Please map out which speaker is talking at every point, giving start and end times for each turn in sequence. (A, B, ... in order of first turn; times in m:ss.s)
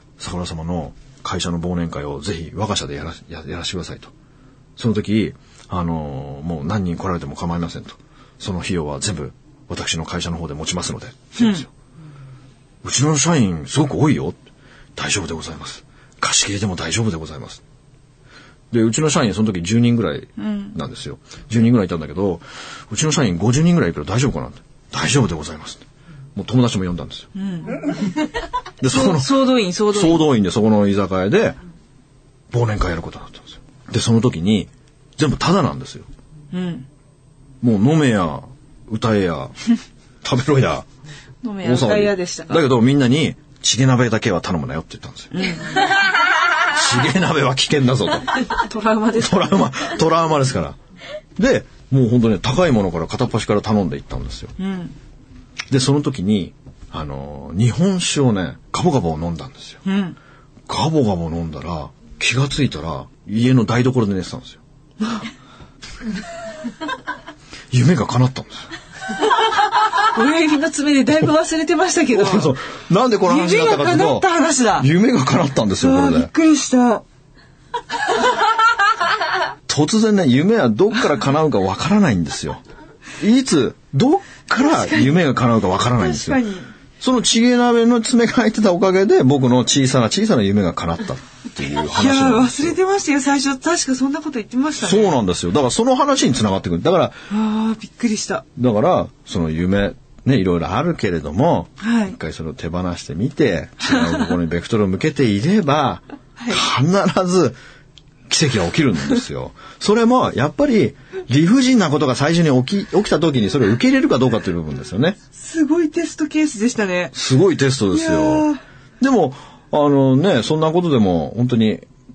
0:00.2-0:04.1 A
0:04.8-0:11.7 A
0:11.4-0:11.7 B
0:12.8-0:14.4 A
0:15.0-0:17.6 A
0:18.7-0:25.8 A
0:20.4-0:20.8 B
0:26.4-0:27.3 A
0:27.4-0:27.9 B
0:28.8-0:31.6 A
0:28.9-0:30.3 B
0:32.5-0:36.1 A
0:36.5-0:36.9 B
0:37.6-0:39.6 A
0:40.2-0:40.9 A
0:41.4-0:42.7 B
0:41.6-0:45.3 A
0:45.3-0:46.0 B
0:46.7-0:48.5 A
0:48.5-0:49.9 B
0:49.1-0:50.8 A
0:51.4-0:54.5 A
0:54.6-0:54.9 B
0:55.7-0:59.8 A
0:59.8-1:00.2 B
1:00.7-1:04.6 A
1:07.7-1:08.7 A
1:10.0-1:12.5 B
1:12.1-1:16.3 A
1:13.2-1:14.9 B
1:15.8-1:17.0 B
1:19.7-1:22.6 A
1:23.2-1:26.4 A
1:24.7-1:25.1 B
1:26.0-1:26.7 B
1:27.0-1:32.8 A
1:31.9-1:35.2 B
1:34.8-1:37.2 A
1:37.3-1:38.4 B
1:38.6-1:47.6 A
1:41.8-1:42.2 B
1:46.4-1:46.6 B
1:48.3-1:55.2 A
1:55.3-1:57.1 B
1:57.1-2:01.8 A
1:57.9-1:58.6 B